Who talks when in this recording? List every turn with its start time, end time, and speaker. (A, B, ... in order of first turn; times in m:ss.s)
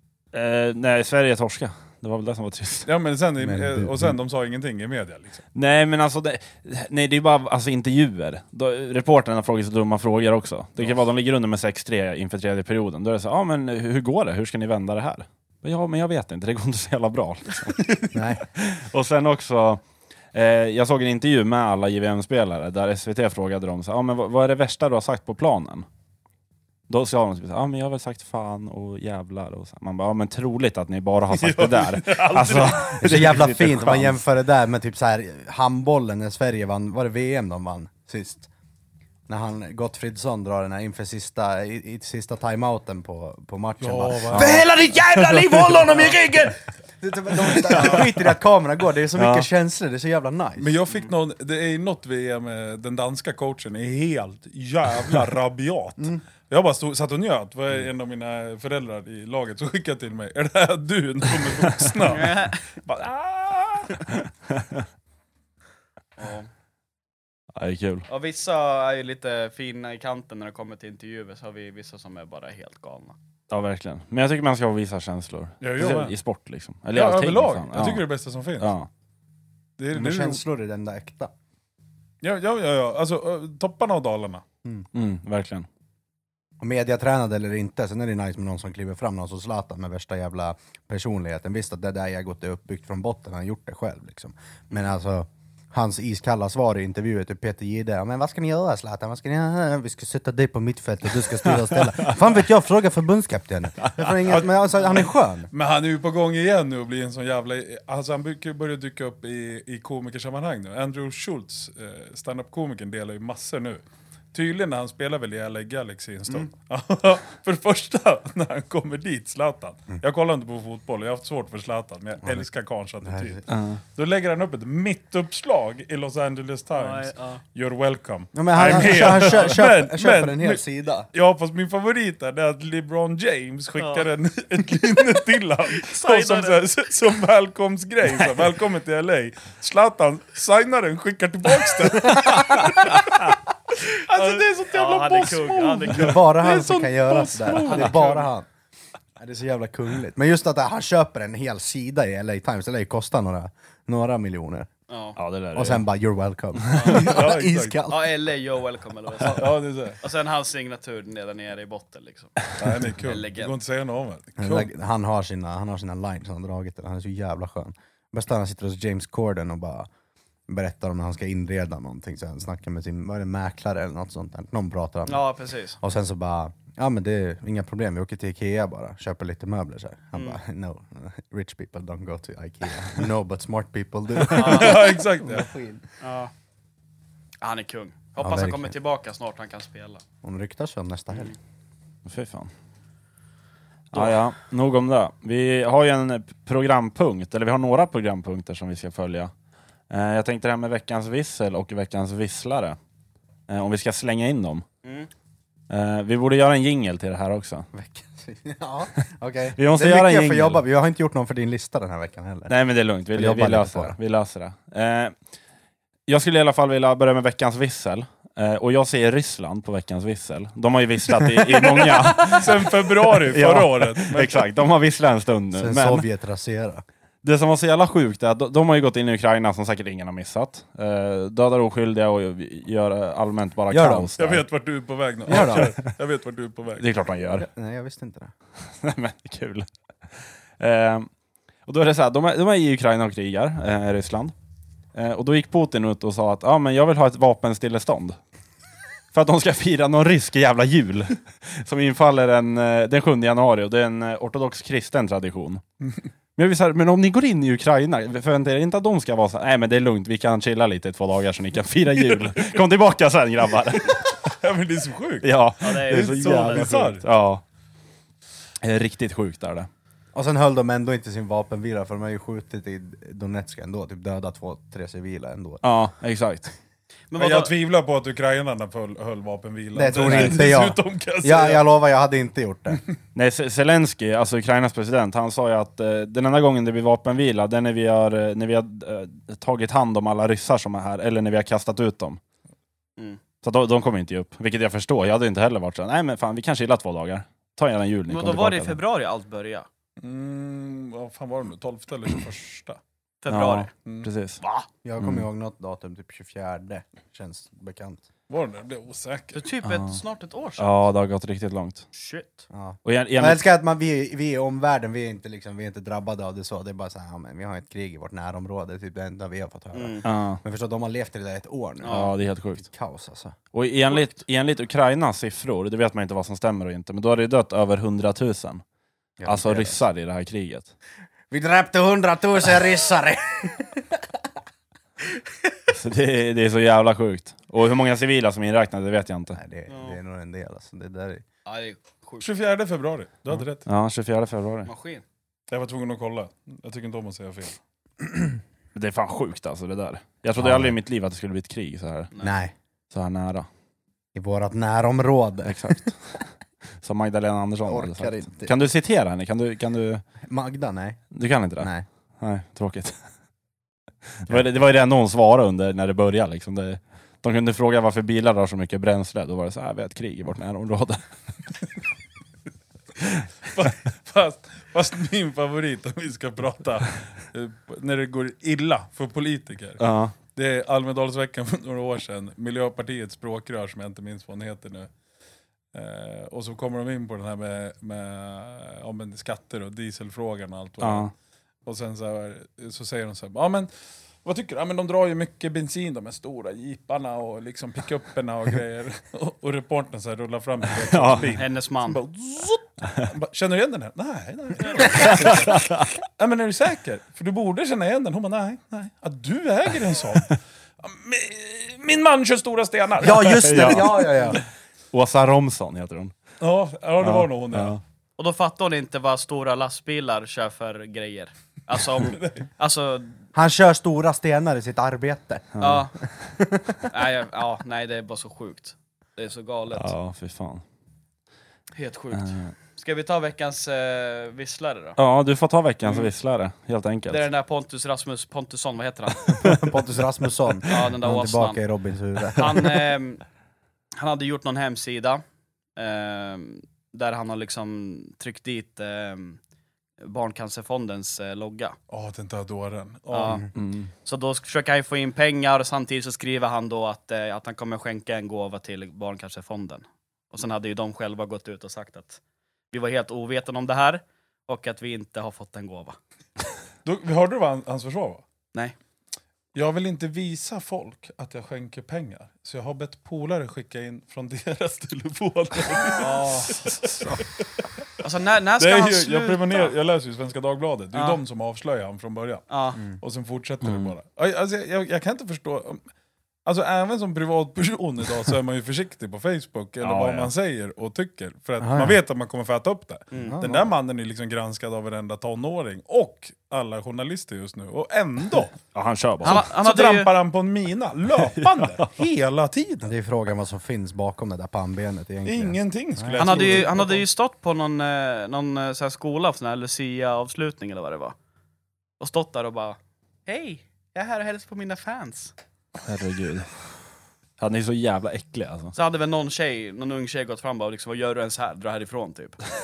0:00.3-0:02.9 A
0:02.8-0:05.4 B
0:03.4-0:04.2 C
0:05.5-0:19.8 A
0:10.8-0:11.0 B
0:18.1-0:18.4 C
0:20.3-0:25.8 A
0:26.9-0:34.2 A
0:31.3-0:33.0 B
0:33.0-0:38.5 C
0:39.3-0:50.8 C
0:43.8-0:45.0 B
0:44.3-0:46.4 A
0:45.8-0:46.2 B
0:47.6-0:48.1 A
0:47.7-0:48.0 B
0:49.2-0:49.5 A
0:50.6-1:04.2 B
1:02.0-1:02.6 D
1:06.2-1:06.5 D
1:07.6-1:08.1 A
1:08.1-1:13.2 D
1:13.5-1:18.1 A
1:15.6-1:16.1 B
1:16.9-1:18.7 B
1:18.6-1:18.9 A
1:19.8-1:20.4 B
1:19.9-1:21.3 C
1:22.2-1:24.4 B
1:24.9-1:25.6 A
1:26.6-1:45.5 C
1:43.8-1:44.3 A
1:44.2-1:53.8 B
1:54.3-2:28.3 B
2:03.0-2:03.4 C
2:03.5-2:03.8 A
2:06.8-2:07.4 D
2:08.3-2:11.1 C
2:08.6-2:09.5 D
2:13.8-2:14.1 D
2:15.8-2:16.6 D
2:24.1-2:26.3 D
2:25.9-2:28.5 C
2:27.6-2:28.0 D
2:29.2-2:34.7 C
2:34.9-2:35.2 D
2:35.2-2:35.8 A
2:35.5-2:38.1 C
2:36.7-2:37.2 D
2:36.9-2:37.8 B
2:37.9-2:43.5 D
2:39.2-2:40.0 B
2:42.5-2:44.7 B
2:44.4-2:49.9 C
2:50.5-2:55.2 C
2:55.1-2:55.8 D
2:55.8-3:05.8 C
3:00.1-3:00.4 D
3:04.2-3:05.5 B
3:04.3-3:04.9 D
3:06.0-3:06.3 D
3:07.4-3:10.0 D
3:08.2-3:08.7 C
3:10.2-3:11.3 C
3:12.0-3:12.5 A
3:13.9-3:19.3 A
3:19.9-3:22.8 A
3:23.5-3:24.6 A
3:24.8-3:25.1 D
3:25.7-3:27.7 A
3:27.7-3:32.5 C
3:29.6-3:30.6 A
3:32.5-3:35.1 A
3:33.1-3:34.0 C
3:36.1-3:46.0 A
3:41.3-3:42.4 C
3:42.3-3:44.5 B
3:45.5-3:46.8 C
3:47.2-3:54.4 A
3:53.7-3:54.1 C
3:54.2-3:56.9 B
3:55.3-3:55.7 C
3:55.3-3:55.9 A
3:56.8-3:57.4 A
3:57.3-3:58.3 C
3:58.8-3:59.7 A
4:00.6-4:01.1 A
4:01.6-4:04.3 A
4:04.9-4:08.2 A
4:09.1-4:15.6 A
4:16.4-4:24.2 A
4:24.2-4:27.0 B
4:25.2-4:27.4 A
4:25.6-4:26.7 D
4:28.6-4:29.7 A
4:30.1-4:35.6 C
4:35.6-4:36.5 A
4:37.1-4:37.5 D
4:37.2-4:41.6 B
4:39.7-4:42.8 C
4:40.0-4:40.4 A
4:43.1-4:52.2 A
4:53.4-4:58.8 A
4:58.1-4:59.7 D
5:00.0-5:02.8 B
5:03.2-5:03.7 D
5:03.3-5:04.4 A
5:04.8-5:08.0 C
5:05.0-5:05.2 A
5:08.3-5:09.4 B
5:09.3-5:10.8 D
5:09.6-5:10.0 A
5:10.6-5:11.8 A
5:11.9-5:12.5 D
5:12.5-5:23.4 C
5:12.8-5:13.4 A
5:19.7-5:20.0 D
5:20.0-5:20.4 A
5:21.8-5:22.1 D
5:21.9-5:22.6 A
5:23.5-5:28.6 A
5:29.2-5:29.8 C
5:29.2-5:30.7 A
5:31.3-5:34.0 C
5:35.7-5:39.4 A
5:39.3-5:41.2 C
5:39.7-5:40.0 D
5:41.4-5:42.2 D
5:42.2-5:43.6 B
5:43.6-5:44.7 A
5:44.6-5:45.0 D
5:45.5-5:47.6 B
5:48.7-5:52.1 A
5:50.4-5:50.8 C
5:52.2-5:52.5 C
5:52.9-5:53.5 A
5:54.1-5:55.9 C
5:55.4-5:56.2 A
5:56.8-6:00.0 A
5:57.6-5:58.5 C
6:00.2-6:01.0 C
6:01.1-6:03.0 A
6:01.6-6:01.8 C
6:04.2-6:11.0 A
6:13.5-6:19.8 B
6:19.8-6:20.1 A
6:20.3-6:24.9 B
6:25.7-6:31.1 B
6:30.8-6:31.1 A
6:31.6-6:33.7 B
6:34.2-6:54.4 B
6:40.8-6:41.3 A
6:41.3-6:42.0 D
6:45.0-6:45.9 A
6:53.0-6:54.4 C
6:53.2-6:54.4 A
6:54.9-6:56.1 A
6:56.4-6:57.8 B
6:57.0-6:57.8 A
6:58.2-7:03.1 D
7:02.0-7:02.4 B
7:03.3-7:05.6 C
7:05.5-7:05.8 A
7:05.6-7:05.9 D
7:06.4-7:06.9 C
7:06.9-7:09.9 D
7:09.7-7:10.6 A
7:11.8-7:15.0 D
7:12.1-7:12.5 A
7:15.0-7:17.2 A
7:17.1-7:19.4 D
7:19.3-7:22.8 C
7:20.6-7:21.6 D
7:22.3-7:23.2 D
7:24.0-7:25.2 D
7:25.8-7:29.4 D
7:30.0-7:31.8 D
7:31.9-7:33.4 B
7:33.1-7:33.5 D
7:33.6-7:33.9 A
7:34.0-7:42.2 D
7:42.7-7:46.0 D
7:46.8-7:48.2 B
7:49.5-7:57.2 B
7:56.0-7:56.8 D
7:58.0-7:59.7 D
7:58.6-8:05.8 B
8:00.9-8:01.2 D
8:02.5-8:02.8 D
8:03.6-8:03.9 A
8:06.4-8:18.6 B
8:09.8-8:10.3 A
8:11.6-8:12.0 C
8:13.1-8:13.4 D
8:13.2-8:13.7 C
8:18.7-8:19.5 A
8:19.2-8:20.1 D
8:19.2-8:22.9 B
8:22.8-8:26.6 C
8:25.2-8:27.1 B
8:26.2-8:31.1 D
8:32.0-8:35.3 D
8:35.8-8:36.5 A
8:37.4-8:38.7 A
8:38.7-8:42.4 D